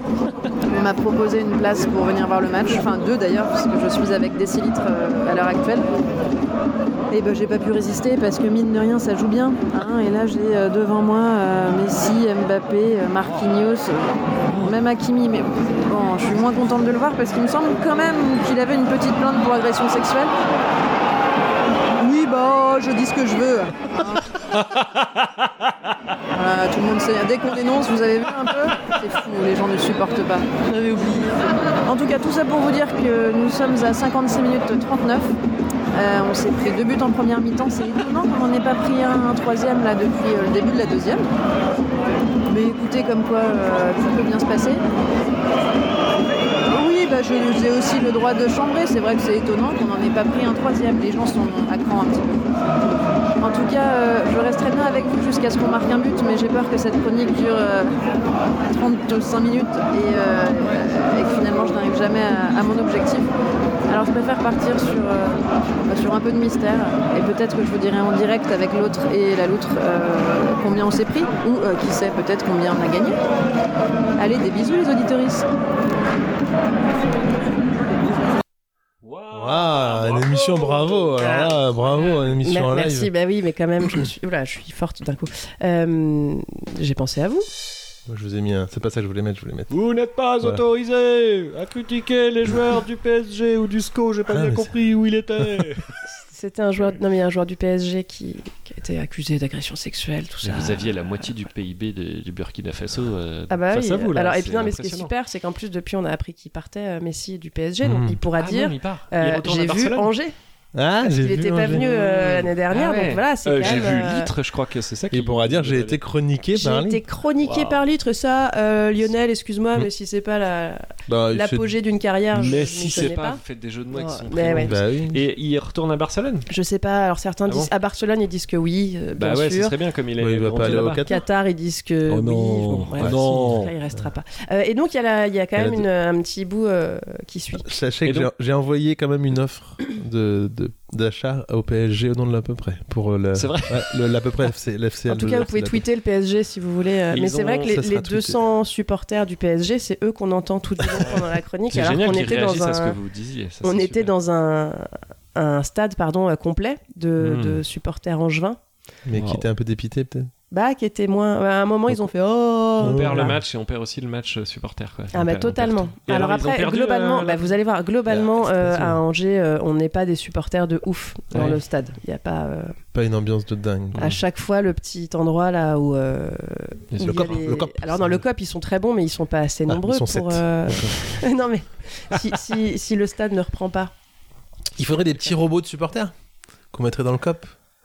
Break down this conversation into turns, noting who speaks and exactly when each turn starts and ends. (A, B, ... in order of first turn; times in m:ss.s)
0:00.7-0:05.9 A
0:07.1-0:20.3 A
0:22.0-0:24.2 A
0:26.3-0:35.4 A
0:35.9-0:41.3 A
0:42.5-0:44.8 A
0:46.7-0:52.5 A
0:53.4-0:58.0 A
0:58.7-1:03.3 A
1:03.9-1:13.2 A
1:14.2-1:15.5 A
1:19.0-1:22.4 B
1:19.3-1:23.1 C
1:22.4-1:27.5 D
1:28.1-1:29.7 C
1:29.7-1:35.9 B
1:34.3-1:34.7 C
1:36.3-1:41.2 D
1:40.4-1:45.1 B
1:43.5-1:50.4 D
1:47.8-1:48.2 C
1:48.4-1:50.1 B
1:50.8-1:52.3 C
1:51.0-1:54.3 D
1:51.8-1:56.0 B
1:55.1-1:57.0 C
1:56.6-2:03.4 D
1:57.4-1:57.8 B
2:01.1-2:01.7 C
2:02.4-2:06.5 B
2:03.9-2:04.7 D
2:04.4-2:05.2 C
2:06.5-2:09.8 D
2:09.2-2:11.0 B
2:10.2-2:11.2 C
2:10.6-2:17.7 D
2:12.1-2:13.7 B
2:13.0-2:13.3 C
2:15.6-2:15.8 C
2:17.6-2:25.8 C
2:18.1-2:18.3 B
2:23.4-2:23.9 B
2:25.1-2:33.0 D
2:27.1-2:27.8 B
2:27.7-2:28.4 C
2:31.7-2:34.1 B
2:33.6-2:38.6 D
2:37.2-2:37.6 B
2:39.1-2:40.3 C
2:39.1-2:39.4 B
2:40.5-2:43.4 D
2:42.8-2:47.6 B
2:42.8-2:43.4 C
2:45.1-2:52.8 D
2:48.1-2:49.0 C
2:51.3-2:51.6 B
2:52.9-2:54.2 C
2:54.0-3:03.9 D
2:56.9-2:57.4 B
2:57.0-2:58.2 C
2:59.7-3:01.0 C
3:04.8-3:06.1 C
3:06.7-3:07.5 C